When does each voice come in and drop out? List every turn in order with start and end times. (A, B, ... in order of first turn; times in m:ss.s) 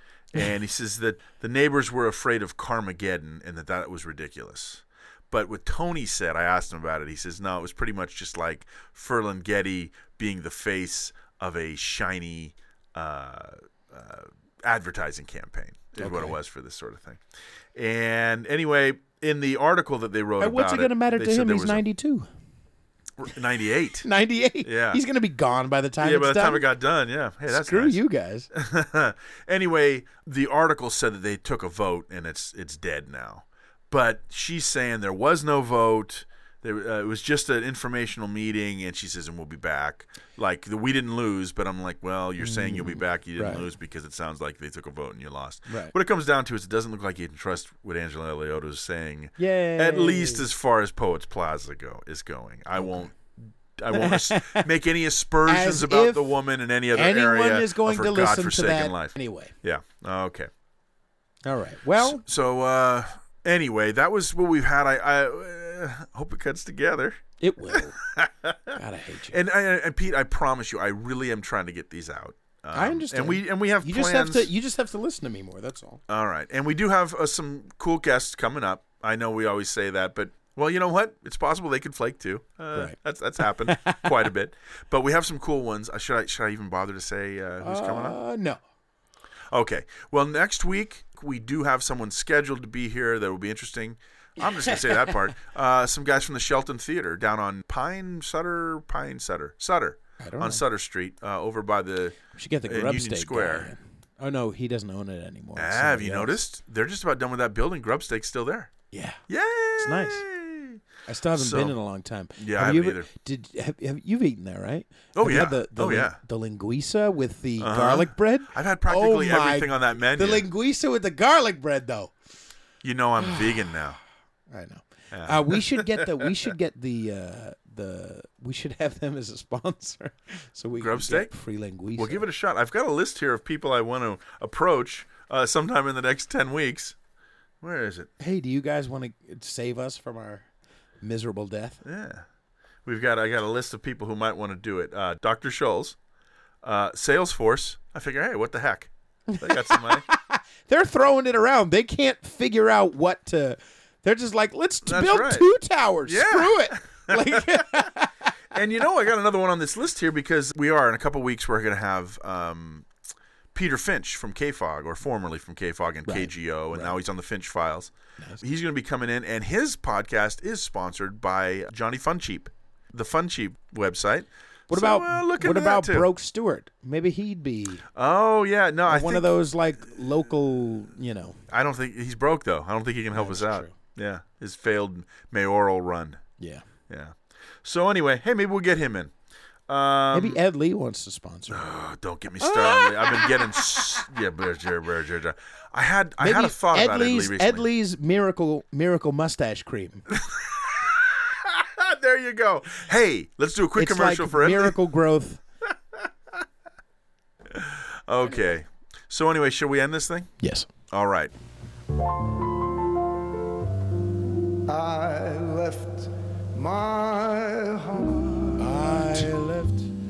0:00.3-0:17.2 A
0:16.0-0:16.4 B
0:17.7-0:21.8 A
0:20.4-0:22.3 B
0:23.2-0:24.0 A
0:24.0-0:26.7 B
0:24.6-0:25.0 A
0:26.0-0:28.0 A
0:27.5-0:28.5 B
0:28.5-1:00.5 A
0:42.4-0:43.6 B
0:45.7-0:45.9 B
0:49.4-0:50.4 B
0:52.8-0:53.1 B
0:53.9-0:54.7 B
0:55.4-0:56.3 B
0:56.9-0:59.5 B
1:01.4-1:02.2 B
1:01.9-1:08.8 A
1:07.4-1:08.0 B
1:08.7-1:09.4 B
1:09.3-1:14.5 A
1:12.7-1:16.0 B
1:16.1-1:28.2 A
1:22.7-1:24.1 B
1:27.6-1:28.6 B
1:29.5-1:43.7 A
1:34.7-1:35.2 B
1:40.2-1:40.6 B
1:42.3-1:46.4 B
1:45.6-1:48.7 A
1:48.9-1:49.2 B
1:49.3-1:50.8 A
1:49.8-1:50.2 B
1:51.0-2:02.1 B
1:51.3-1:51.8 A
1:52.4-1:53.1 A
1:55.1-1:56.2 A
1:57.6-2:00.5 A
2:02.8-2:04.0 A
2:03.2-2:03.8 B
2:04.5-2:12.2 B
2:05.1-2:06.2 A
2:10.8-2:11.3 A
2:11.9-2:17.0 A
2:17.6-2:18.1 A
2:18.2-2:20.4 B
2:21.0-2:21.8 B
2:21.8-2:22.2 A
2:22.8-2:26.0 A
2:26.6-2:30.0 A
2:29.3-2:38.1 B
2:34.8-2:35.5 A
2:36.0-2:37.9 A
2:38.5-2:42.9 A
2:43.5-2:56.1 A
2:46.0-2:47.0 B
2:54.7-2:57.8 B
2:57.9-2:59.3 A
2:58.9-3:01.4 B
3:01.5-3:06.2 A
3:03.1-3:03.7 B
3:06.4-3:06.6 B
3:06.9-3:09.1 A
3:09.7-3:10.4 A
3:10.1-3:11.6 B
3:11.5-3:17.7 A
3:12.4-3:14.0 B
3:16.2-3:20.1 B
3:20.1-3:24.8 A
3:23.8-3:25.4 B
3:27.5-3:30.3 A
3:30.4-3:30.7 B
3:30.9-3:31.3 A
3:34.7-3:39.3 C
3:38.6-3:39.9 B